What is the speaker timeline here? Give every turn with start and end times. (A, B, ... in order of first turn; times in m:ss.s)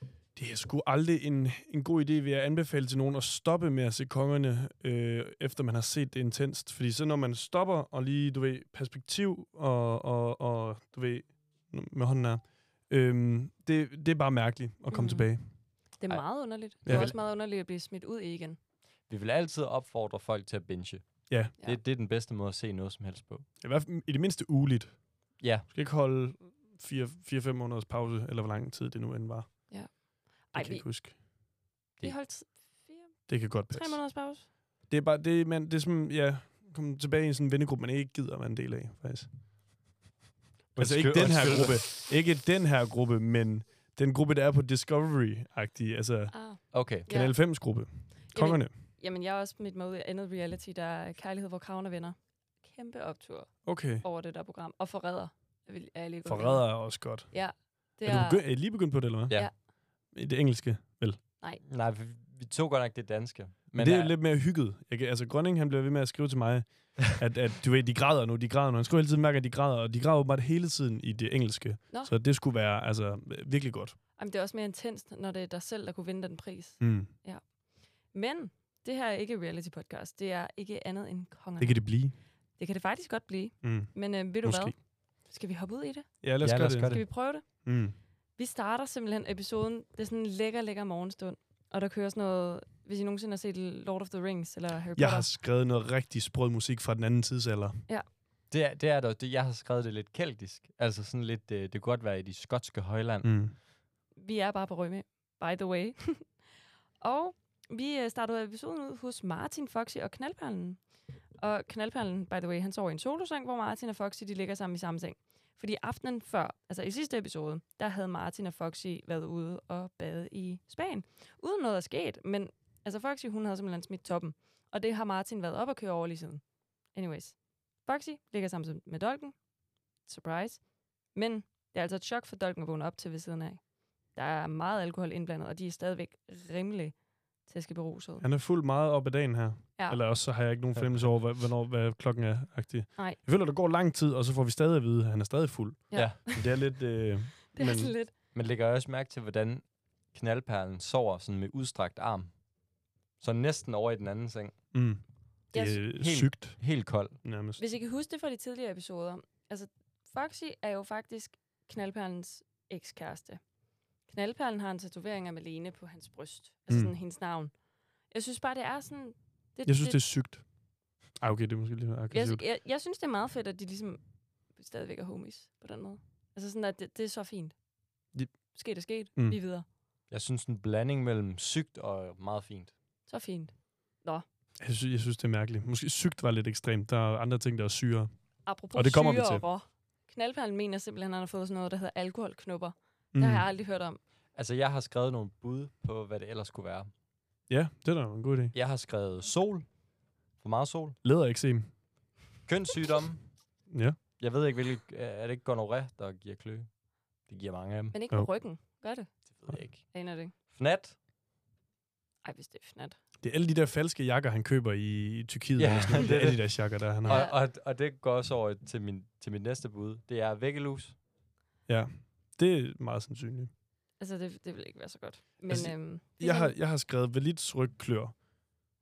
0:00.4-0:15.5 A
0:14.9-0:15.3 B
0:16.0-0:18.6 B
0:16.8-0:17.1 C
0:16.9-0:17.1 A
0:19.1-0:23.5 C
0:23.6-0:25.0 A
0:25.4-0:25.7 C
0:25.7-0:29.8 A
0:29.7-0:30.9 B
0:30.5-0:31.2 A
0:32.0-0:34.5 B
0:33.3-0:34.0 A
0:34.9-0:39.3 A
0:40.8-0:42.0 C
0:40.8-0:46.4 A
0:46.3-0:47.4 B
0:46.7-0:47.1 C
0:47.1-0:48.7 A
0:48.3-0:58.5 B
0:53.6-0:54.1 A
0:56.2-0:57.3 A
0:58.0-0:59.5 A
1:00.1-1:01.2 A
1:01.6-1:04.1 C
1:03.8-1:14.0 A
1:14.2-1:17.4 B
1:16.8-1:17.1 A
1:18.1-1:21.8 B
1:21.6-1:22.1 A
1:22.6-1:26.1 B
1:23.6-1:24.8 A
1:26.2-1:28.0 A
1:26.4-1:27.1 C
1:26.9-1:27.7 B
1:28.4-1:35.3 B
1:35.0-1:37.8 A
1:38.5-1:43.3 C
1:43.2-1:43.6 A
1:44.2-1:46.3 B
1:47.0-1:50.8 B
1:51.4-2:09.4 B
2:10.1-2:10.6 B
2:11.1-2:13.6 B
2:14.1-2:18.2 B
2:18.2-2:28.0 A
2:20.8-2:21.1 C
2:25.9-2:26.5 B
2:26.0-2:26.2 C
2:27.6-2:28.1 B
2:28.3-2:32.3 C
2:33.2-2:34.6 C
2:34.7-2:36.6 A
2:35.5-2:35.8 B
2:35.9-2:37.2 C
2:37.2-2:37.6 A
2:37.6-2:43.4 B
2:44.1-2:47.5 B
2:46.7-2:47.0 A
2:48.1-2:50.0 B
2:49.7-2:50.4 A
2:51.2-2:52.4 A
2:52.1-2:54.0 B
2:54.6-2:57.5 B
2:58.5-2:59.6 B
3:00.1-3:02.7 C
3:03.1-3:04.2 B
3:04.6-3:08.1 A
3:08.5-3:14.0 B
3:08.7-3:09.4 A
3:13.1-3:13.5 A
3:14.4-3:16.9 C
3:17.5-3:18.5 A
3:18.5-3:19.7 C
3:20.4-3:21.0 C
3:21.0-3:21.7 A
3:22.5-3:23.3 C
3:23.7-3:24.0 A
3:24.2-3:26.7 C
3:27.3-3:28.0 C
3:27.9-3:29.1 B
3:29.3-3:30.0 C
3:29.9-3:30.3 B
3:30.5-3:31.0 C
3:32.2-3:33.0 B
3:33.2-3:37.2 A
3:35.6-3:41.0 C
3:37.1-3:37.4 B
3:41.7-3:43.5 A
3:44.0-3:46.5 B
3:45.5-3:48.2 A